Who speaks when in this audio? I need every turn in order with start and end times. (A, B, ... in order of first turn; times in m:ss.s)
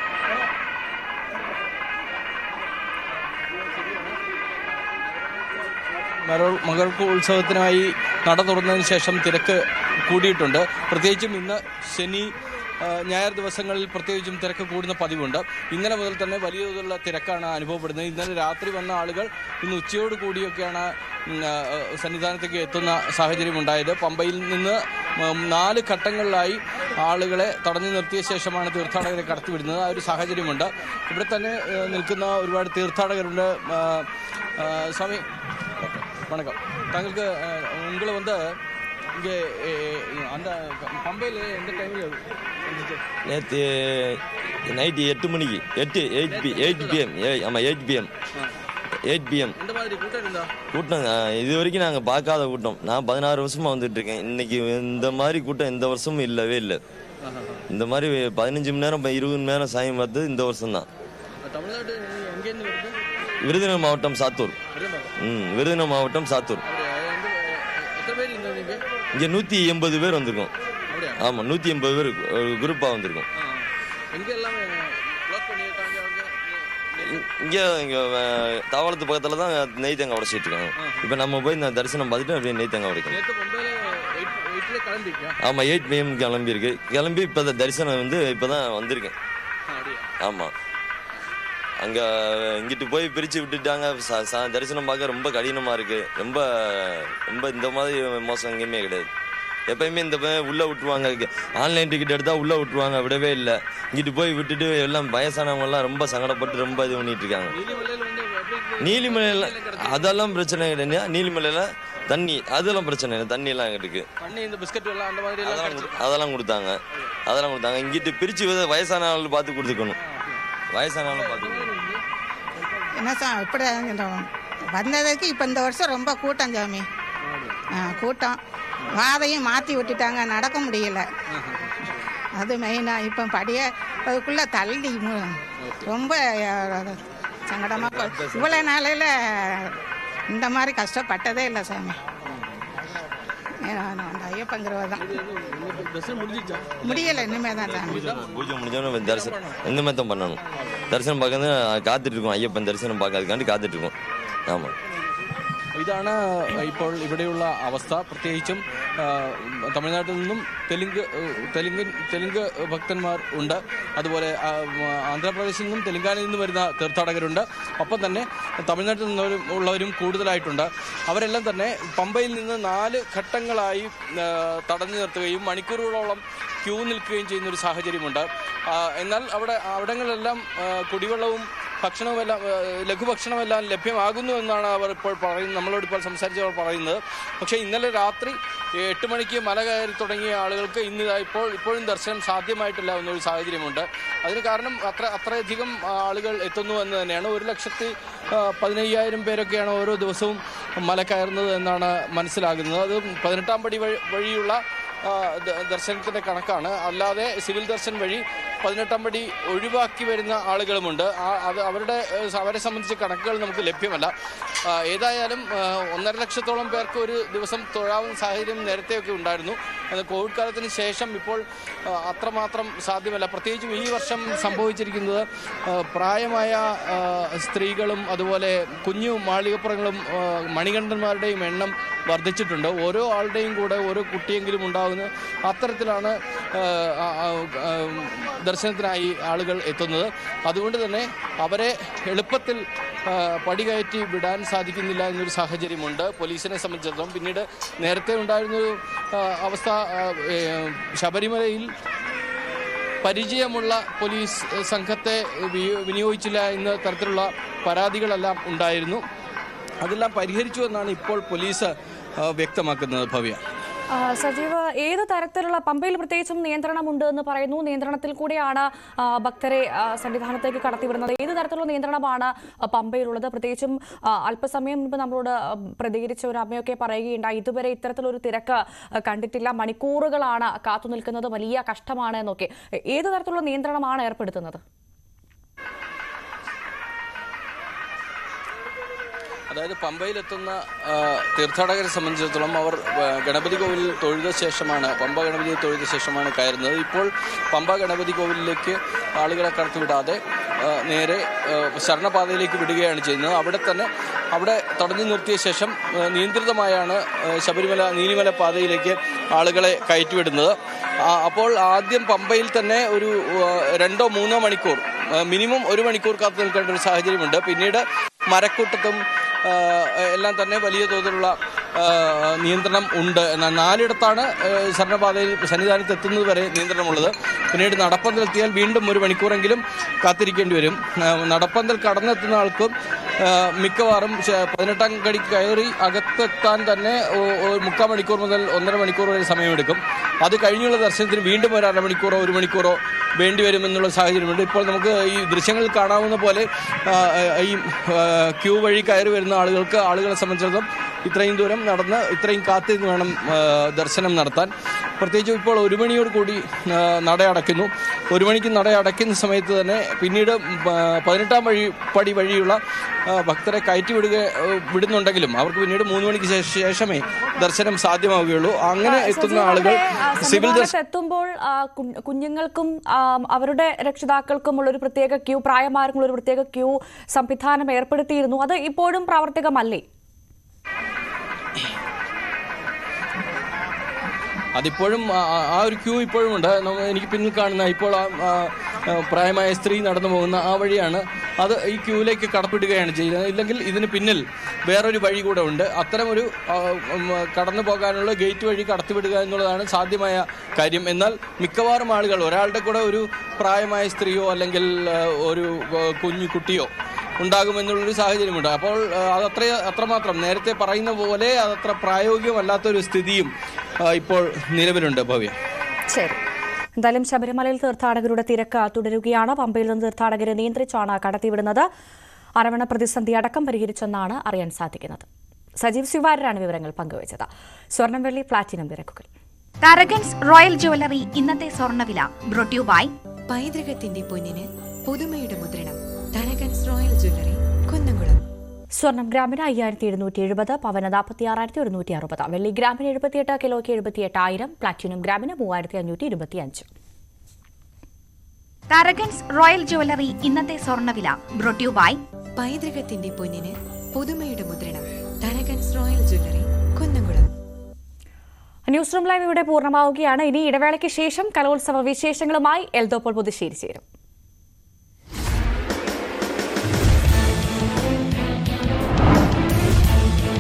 0:06.2-0:12.3 A
0:12.8-0:34.1 A
0:34.6-0:35.2 A
0:36.2-0:38.4 A
0:39.2-0:43.0 A
0:43.3-0:48.1 B
0:46.3-0:47.0 A
0:49.1-0:49.5 B
0:49.6-0:50.5 A
0:50.7-0:56.8 B
0:57.2-0:57.6 A
0:57.7-1:00.9 B
1:01.4-1:03.0 A
1:03.4-1:04.6 B
1:04.8-1:05.1 A
1:05.2-1:06.6 B
1:06.7-1:08.8 A
1:09.2-1:10.5 B
1:10.9-1:11.2 A
1:11.2-1:13.2 B
1:13.5-1:17.1 A
1:17.1-1:23.2 B
1:23.1-1:25.4 A
1:25.4-1:29.1 B
1:29.7-1:30.1 A
1:30.2-1:30.5 B
1:31.8-1:39.1 B
1:39.7-1:47.6 B
1:47.5-1:50.1 A
1:48.8-1:54.1 B
1:54.2-1:56.0 A
1:55.4-2:00.0 B
2:00.7-2:01.7 B
2:01.2-2:02.0 A
2:03.0-2:06.9 C
2:07.8-2:08.4 C
2:09.0-2:11.0 C
2:11.3-2:11.7 A
2:12.4-2:15.3 C
2:15.6-2:15.9 A
2:15.8-2:17.0 C
2:17.5-2:19.7 C
2:17.8-2:18.6 B
2:20.3-2:22.0 C
2:23.6-2:25.0 C
2:25.0-2:26.8 A
2:26.8-2:28.0 C
2:27.7-2:30.4 B
2:29.1-2:29.5 A
2:30.9-2:33.9 B
2:34.5-2:34.7 B
2:35.8-3:34.1 A
3:34.7-4:11.7 A
4:13.0-4:19.0 A
4:19.8-4:23.4 A
4:23.9-4:44.6 D
4:49.5-5:10.6 A
5:11.1-5:32.7 A
5:33.2-6:10.7 A
6:08.8-6:19.8 D
6:24.6-6:53.3 A
6:53.8-6:55.4 A
6:55.9-6:56.2 D
6:56.8-7:01.7 D
7:02.4-7:05.0 D
7:05.6-7:09.1 D
7:09.6-7:12.9 E
7:13.3-7:18.2 F
7:18.8-7:26.7 D
7:28.7-7:32.0 E
7:32.4-7:37.3 F
7:38.7-7:43.8 D